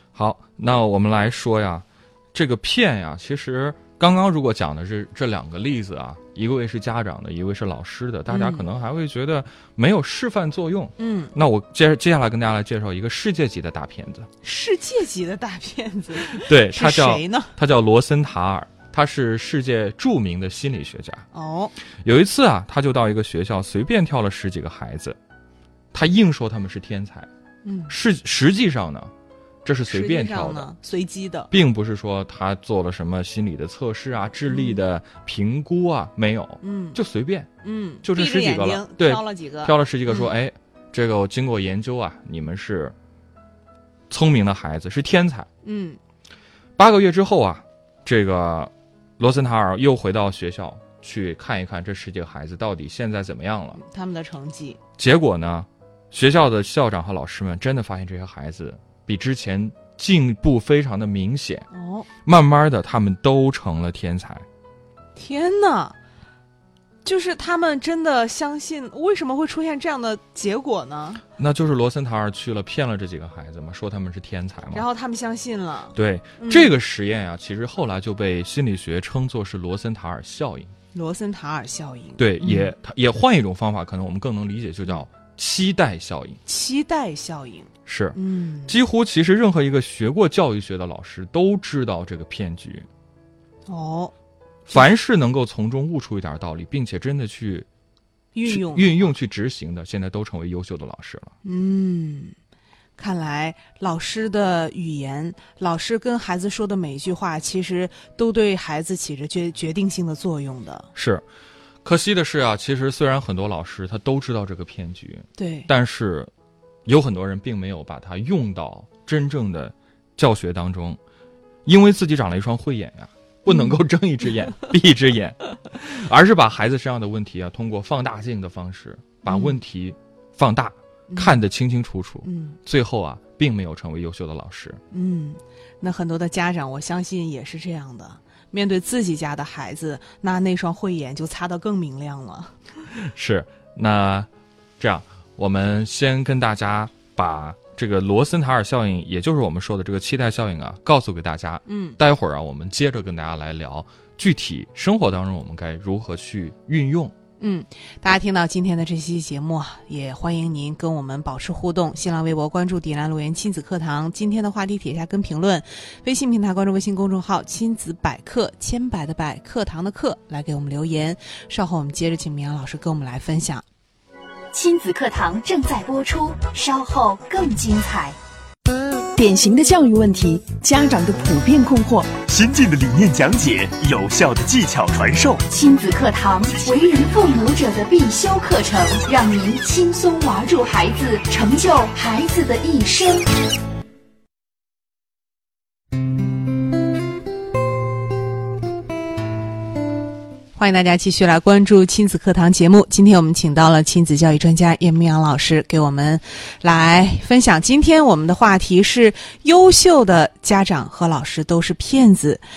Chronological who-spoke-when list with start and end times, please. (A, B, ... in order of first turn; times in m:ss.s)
0:00.2-0:14.3 A
0:08.3-0:08.6 B
0:11.0-0:11.3 B
0:14.4-0:17.5 B
0:16.3-0:21.2 A
0:21.3-0:21.7 B
0:22.0-0:25.2 A
0:25.9-0:27.3 A
0:27.6-0:27.9 B
0:27.9-0:29.1 A
0:29.6-0:30.7 A
0:29.9-0:31.5 B
0:31.5-0:37.5 A
0:34.5-0:34.8 B
0:36.6-0:37.0 B
0:37.6-0:40.3 B
0:38.0-0:43.0 A
0:44.1-0:45.5 A
0:45.6-0:46.0 B
0:46.8-0:53.8 A
0:53.8-0:54.8 B
0:55.0-1:01.7 A
1:01.7-1:02.1 B
1:02.2-1:04.4 A
1:05.2-1:06.0 B
1:07.0-1:11.2 B
1:11.4-1:14.8 A
1:14.7-1:16.7 B
1:16.0-1:20.7 A
1:20.9-1:22.7 B
1:22.2-1:26.4 A
1:26.5-1:28.8 B
1:27.9-1:32.9 A
1:33.7-1:34.1 B
1:34.7-1:37.7 A
1:38.3-1:39.0 B
1:38.5-1:41.3 A
1:41.4-1:42.4 B
1:43.0-1:50.9 B
1:51.0-1:51.2 A
1:51.8-1:56.3 A
1:55.4-1:55.7 B
1:56.9-2:01.0 A
2:01.6-2:14.8 A
2:03.5-2:03.8 B
2:09.3-2:09.6 B
2:11.1-2:11.4 B
2:12.2-2:12.6 B
2:14.9-2:22.6 B
2:23.0-2:37.1 A
2:31.7-2:32.0 B
2:37.4-2:53.6 B
2:54.5-2:58.2 C
2:59.2-3:02.1 D
3:02.1-3:05.4 E
3:05.5-3:13.3 C
3:20.6-3:32.4 B